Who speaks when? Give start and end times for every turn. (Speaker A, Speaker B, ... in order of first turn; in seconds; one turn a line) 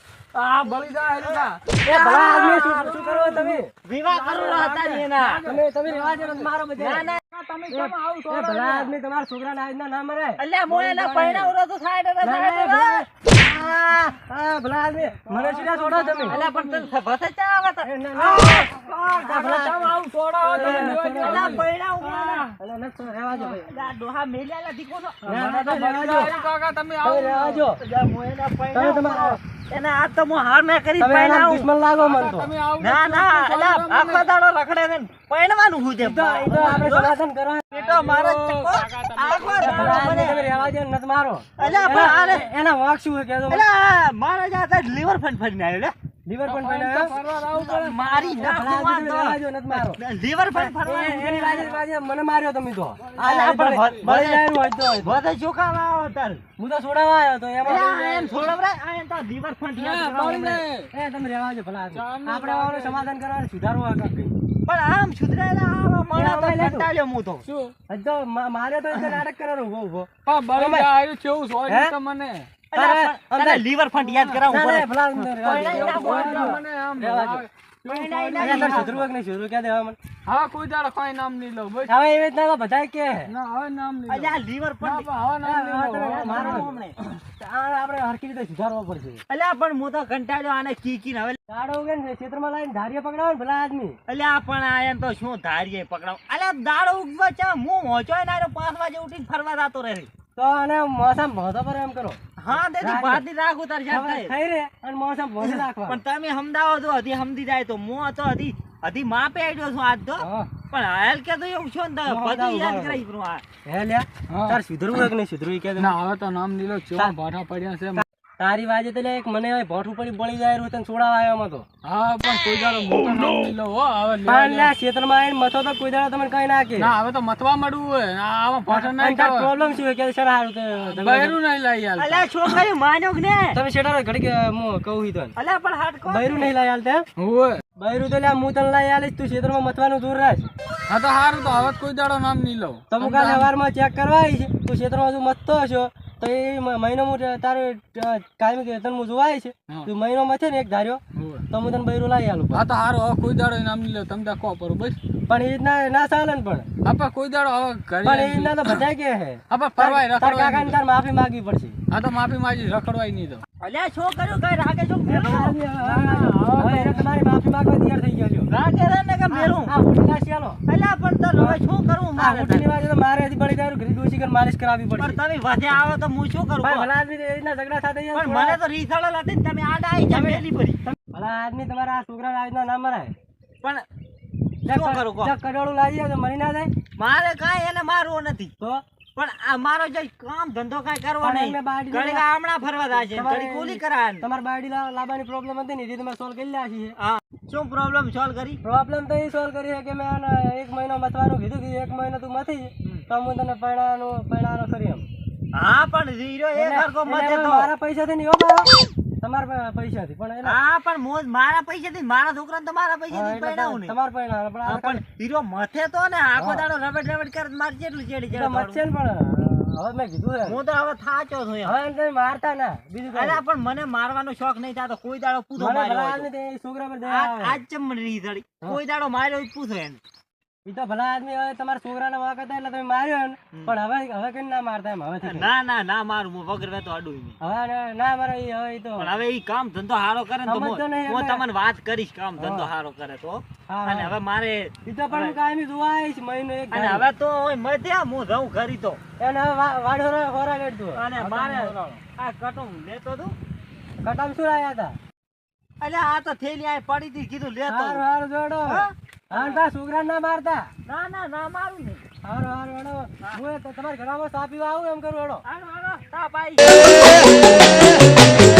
Speaker A: 0.3-1.6
Speaker B: 0.7-3.3
Speaker C: 1.8-3.7
Speaker A: 2.2-6.5
Speaker B: 3.8-5.4
Speaker C: 5.4-7.0
Speaker B: 6.8-7.2
Speaker A: 7.3-8.9
Speaker C: 7.7-10.4
Speaker B: 10.4-13.1
Speaker A: 10.7-11.5
Speaker C: 12.2-16.4
Speaker A: 15.2-16.9
Speaker B: 16.3-22.5
Speaker C: 17.8-18.7
Speaker C: 19.2-19.8
Speaker A: 19.3-22.6
Speaker C: 20.4-21.6
Speaker C: 22.6-23.8
Speaker B: 23.6-25.2
Speaker A: 25.2-27.6
Speaker C: 25.2-26.3
Speaker B: 26.1-26.5
Speaker C: 27.0-27.8
Speaker B: 27.8-31.7
Speaker C: 28.7-29.4
Speaker C: 31.0-32.5
Speaker A: 32.0-34.3
Speaker B: 32.8-37.1
Speaker C: 36.0-37.6
Speaker B: 37.7-40.4
Speaker A: 37.7-40.7
Speaker C: 39.6-43.6
Speaker B: 41.6-42.5
Speaker A: 41.6-42.2
Speaker B: 43.5-45.9
Speaker C: 46.2-47.1
Speaker A: 46.4-48.5
Speaker B: 47.5-51.8
Speaker C: 48.4-50.0
Speaker C: 50.5-55.2
Speaker A: 53.0-54.1
Speaker B: 53.2-56.4
Speaker C: 56.6-58.5
Speaker B: 57.6-60.6
Speaker A: 59.8-60.9
Speaker C: 60.9-64.3
Speaker A: 61.9-63.1
Speaker B: 64.7-67.4
Speaker C: 66.1-66.9
Speaker A: 67.5-67.7
Speaker C: 67.9-70.9
Speaker A: 70.2-72.5
Speaker C: 71.7-71.9
Speaker B: 72.7-74.9
Speaker C: 72.7-73.7
Speaker A: 74.1-74.4
Speaker C: 74.4-77.5
Speaker A: 75.2-79.0
Speaker B: 75.4-76.6
Speaker B: 77.9-79.0
Speaker C: 78.4-80.0
Speaker A: 80.2-81.9
Speaker C: 81.9-83.3
Speaker A: 83.3-87.2
Speaker B: 84.1-85.1
Speaker C: 85.4-86.7
Speaker B: 86.0-86.9
Speaker C: 87.4-89.2
Speaker B: 89.3-91.4
Speaker C: 91.5-94.0
Speaker B: 94.1-100.1
Speaker C: 100.3-103.2
Speaker B: 102.4-104.3
Speaker C: 103.9-106.0
Speaker B: 105.4-113.4
Speaker C: 110.2-110.5
Speaker C: 112.1-113.0
Speaker C: 113.7-116.0
Speaker A: 114.3-114.6
Speaker A: 115.8-118.0
Speaker C: 118.0-121.7
Speaker A: 121.8-124.7
Speaker C: 124.2-126.9
Speaker A: 126.8-129.5
Speaker C: 128.7-131.4
Speaker A: 130.9-132.3
Speaker B: 132.0-133.6
Speaker C: 133.5-135.3
Speaker B: 135.3-136.5
Speaker C: 136.1-137.1
Speaker A: 137.2-137.6
Speaker C: 137.8-140.5
Speaker A: 140.9-143.5
Speaker C: 142.9-152.6
Speaker A: 151.1-151.4
Speaker A: 152.5-155.0
Speaker C: 155.3-156.7
Speaker A: 156.8-158.8
Speaker C: 158.0-161.8
Speaker A: 159.5-160.8
Speaker A: 161.9-163.4
Speaker B: 163.6-166.3
Speaker C: 165.1-168.5
Speaker A: 166.3-167.1
Speaker B: 168.5-169.7
Speaker C: 169.3-170.6
Speaker B: 170.7-172.7
Speaker C: 172.2-175.2
Speaker B: 175.0-176.9
Speaker C: 176.6-178.6
Speaker B: 178.1-180.8
Speaker C: 180.1-183.1
Speaker B: 184.7-185.3
Speaker C: 184.7-186.7
Speaker B: 187.0-188.5
Speaker B: 189.2-194.3
Speaker C: 191.2-192.2
Speaker C: 192.9-196.9
Speaker B: 197.0-198.6
Speaker C: 198.6-205.1
Speaker B: 205.5-207.7
Speaker C: 206.5-210.6
Speaker B: 210.4-214.0
Speaker C: 213.1-215.0
Speaker B: 214.6-218.8
Speaker C: 216.3-216.6
Speaker C: 218.3-220.6
Speaker B: 220.4-221.7
Speaker C: 221.6-223.4
Speaker B: 223.1-226.3
Speaker C: 225.6-227.6
Speaker B: 227.0-230.0
Speaker C: 230.7-235.5
Speaker B: 235.2-237.4
Speaker C: 237.4-239.1
Speaker B: 239.0-245.4
Speaker C: 240.4-241.4
Speaker C: 242.4-242.7
Speaker C: 243.7-244.2
Speaker C: 244.8-247.1
Speaker B: 246.7-249.0
Speaker C: 249.2-251.1
Speaker B: 250.9-253.3
Speaker A: 251.2-251.9
Speaker C: 251.6-251.9
Speaker C: 254.0-255.0
Speaker B: 255.8-258.0
Speaker C: 257.7-260.7
Speaker B: 258.6-259.6
Speaker B: 260.9-262.0
Speaker C: 262.2-265.4
Speaker B: 265.4-267.1